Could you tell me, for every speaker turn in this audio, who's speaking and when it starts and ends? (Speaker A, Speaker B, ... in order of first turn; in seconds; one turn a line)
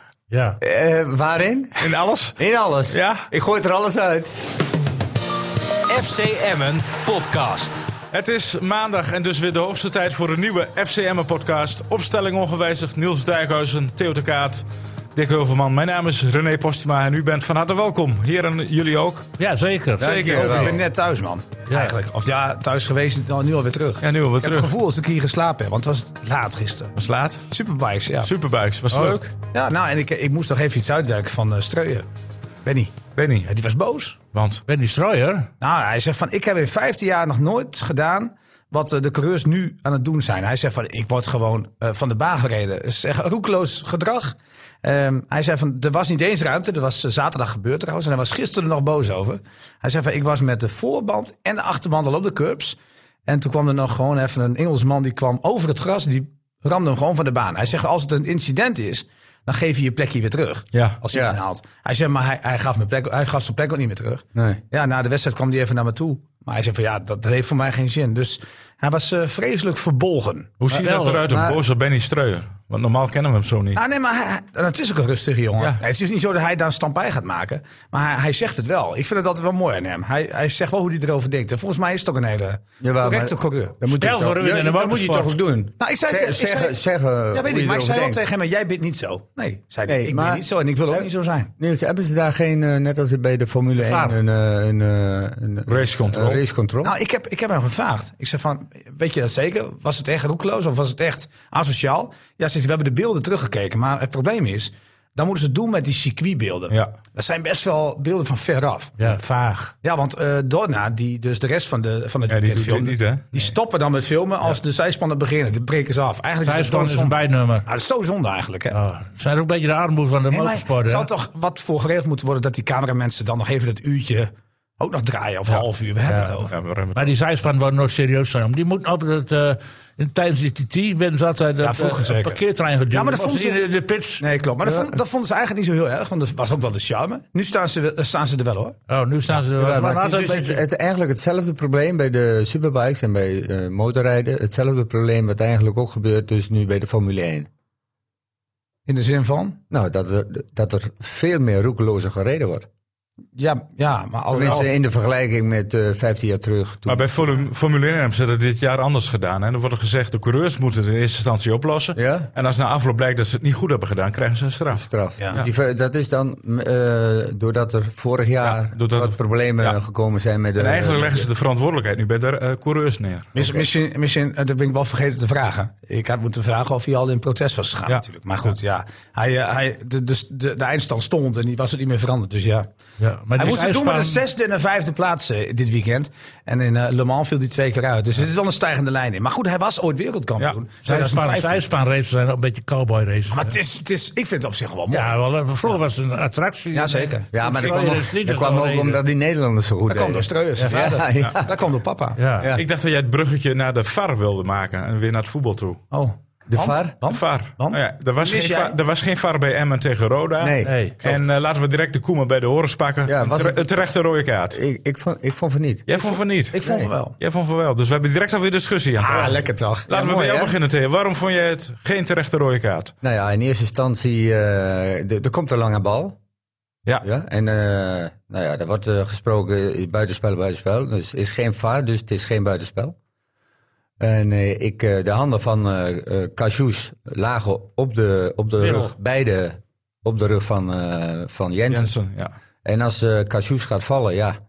Speaker A: 0.3-0.6
Speaker B: 0.6-4.3
Speaker C: 1.8-3.3
Speaker D: 5.9-7.9
Speaker C: 8.1-14.6
Speaker C: 15.2-19.3
Speaker A: 19.4-20.3
Speaker B: 20.0-20.8
Speaker C: 20.1-20.8
Speaker E: 20.1-26.9
Speaker A: 21.7-22.0
Speaker C: 24.0-24.7
Speaker C: 27.0-27.5
Speaker E: 27.5-28.3
Speaker C: 28.2-29.4
Speaker A: 28.9-29.2
Speaker E: 29.5-32.1
Speaker E: 32.6-34.2
Speaker C: 33.2-33.5
Speaker C: 34.3-34.6
Speaker A: 34.7-35.5
Speaker E: 35.6-70.5
Speaker C: 60.7-61.0
Speaker B: 61.1-61.4
Speaker B: 64.3-64.6
Speaker C: 70.6-73.8
Speaker B: 70.7-71.6
Speaker A: 70.8-71.2
Speaker E: 73.8-83.8
Speaker B: 82.8-88.2
Speaker A: 83.9-85.4
Speaker E: 85.8-86.8
Speaker E: 87.3-91.5
Speaker B: 89.9-91.1
Speaker B: 91.6-97.0
Speaker A: 93.8-94.2
Speaker C: 95.7-96.4
Speaker E: 96.8-109.1
Speaker A: 109.0-109.7
Speaker E: 109.8-118.8
Speaker C: 112.3-113.3
Speaker A: 116.4-117.7
Speaker A: 118.7-121.1
Speaker E: 120.3-126.5
Speaker A: 126.1-126.4
Speaker C: 126.5-127.1
Speaker A: 127.0-134.2
Speaker E: 131.6-133.6
Speaker E: 134.2-138.8
Speaker B: 134.6-134.9
Speaker A: 138.9-140.6
Speaker B: 139.3-147.5
Speaker E: 148.9-149.6
Speaker B: 149.7-152.7
Speaker E: 153.4-154.7
Speaker B: 154.3-157.2
Speaker C: 156.9-165.5
Speaker B: 161.9-162.3
Speaker B: 164.7-171.3
Speaker C: 168.4-169.8
Speaker C: 170.6-173.3
Speaker E: 173.3-182.7
Speaker B: 173.4-173.7
Speaker A: 183.0-184.2
Speaker E: 183.4-191.6
Speaker A: 190.8-193.5
Speaker E: 193.3-195.2
Speaker A: 194.9-199.0
Speaker E: 196.7-197.3
Speaker B: 197.3-201.5
Speaker E: 199.9-202.2
Speaker A: 202.2-202.5
Speaker C: 202.5-205.8
Speaker E: 205.9-208.7
Speaker B: 206.5-207.0
Speaker C: 207.0-214.6
Speaker B: 210.4-211.3
Speaker A: 210.6-210.9
Speaker B: 213.1-213.7
Speaker B: 214.5-215.9
Speaker C: 215.9-222.9
Speaker E: 216.0-217.2
Speaker B: 216.6-216.9
Speaker E: 219.0-219.9
Speaker B: 219.9-220.6
Speaker B: 223.0-226.2
Speaker B: 227.0-233.0
Speaker B: 234.0-241.9
Speaker A: 238.6-238.9
Speaker C: 241.7-242.3
Speaker B: 242.7-244.4